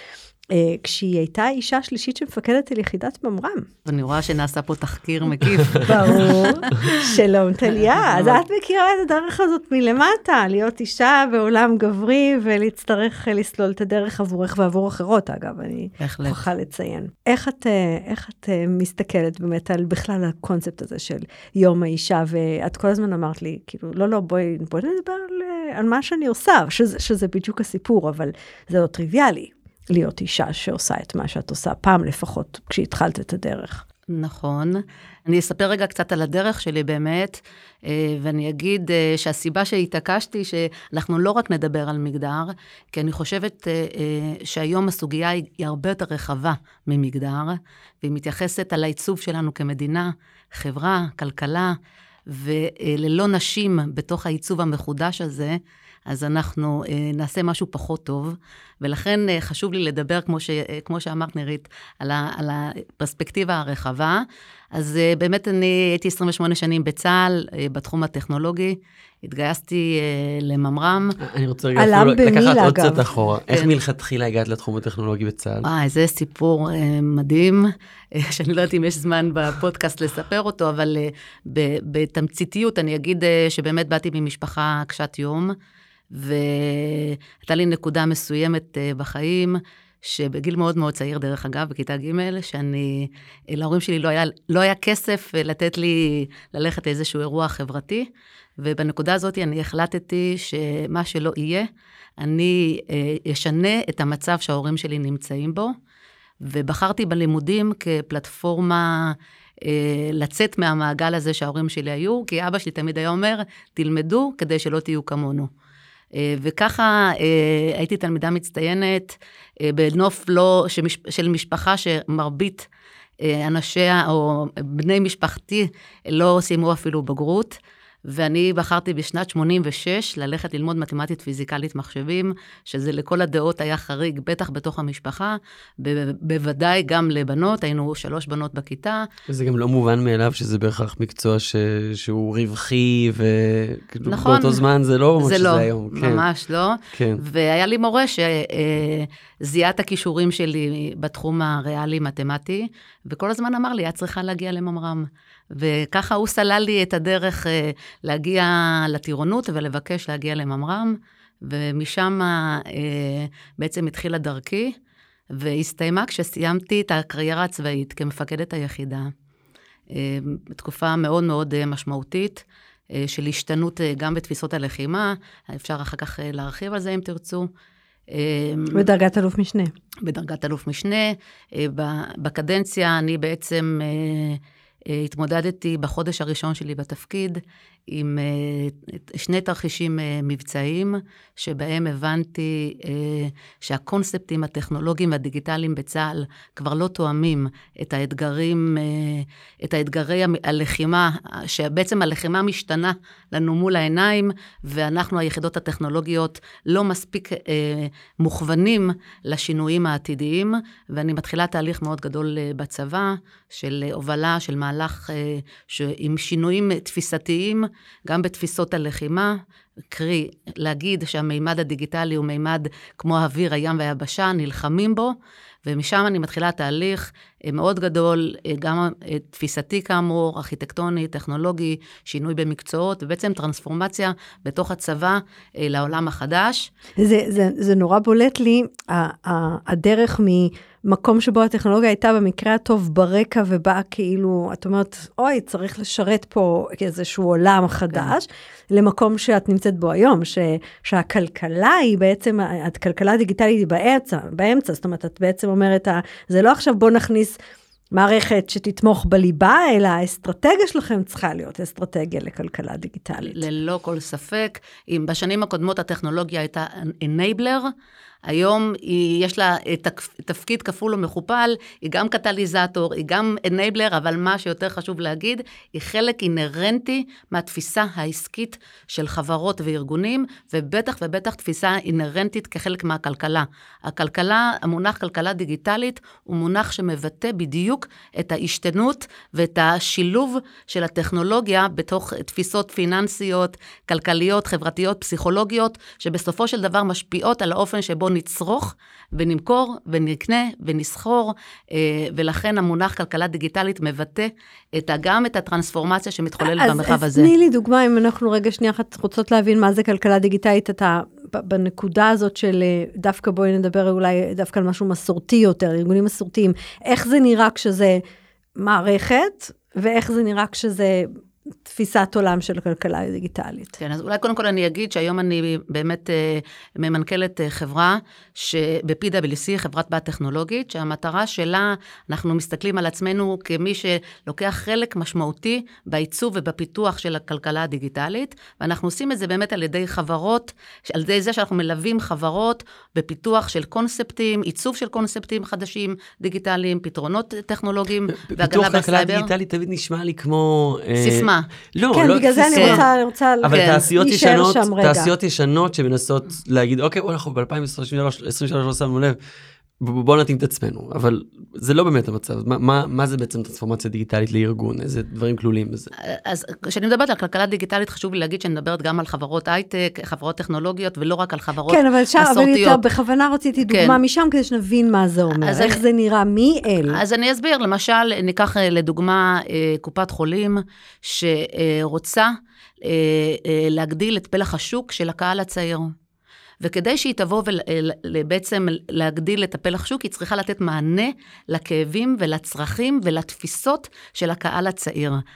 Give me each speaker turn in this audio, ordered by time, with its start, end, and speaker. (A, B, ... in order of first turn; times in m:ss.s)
0:00.5-0:03.7 A
0:03.9-0:07.1 B
0:05.8-0:33.8 A
0:07.7-0:08.4 B
0:16.0-0:16.4 B
0:34.1-0:51.8 B
0:52.3-1:11.2 B
1:11.2-1:15.7 C
1:11.8-1:13.0 A
1:15.6-1:25.5 B
1:26.1-1:41.7 B
1:42.2-1:45.7 B
1:46.4-1:55.5 B
1:56.2-2:02.7 B
2:03.2-2:19.1 B
2:19.3-2:26.2 C
2:24.1-2:24.6 B
2:25.2-2:44.8 B
2:26.9-2:27.2 C
2:45.3-2:49.1 B
2:49.9-2:57.5 B
2:58.1-2:58.8 B
2:58.7-2:59.7 A
3:00.0-3:39.4 B
3:39.9-3:56.7 B
3:57.0-4:17.4 A
4:17.9-4:23.4 A
4:23.2-4:27.7 B
4:28.3-5:07.3 B
5:06.4-5:18.0 A
5:18.6-5:21.1 A
5:21.6-5:23.8 A
5:23.8-5:49.3 B
5:48.1-5:52.9 C
5:51.0-5:51.5 B
5:51.9-5:55.1 A
5:52.5-5:52.8 B
5:53.4-5:59.2 C
5:53.5-5:53.8 B
5:59.8-6:05.9 C
6:06.0-6:12.8 B
6:11.7-6:17.0 A
6:13.7-6:14.0 B
6:15.4-6:15.8 B
6:16.9-6:25.9 B
6:26.6-6:35.2 B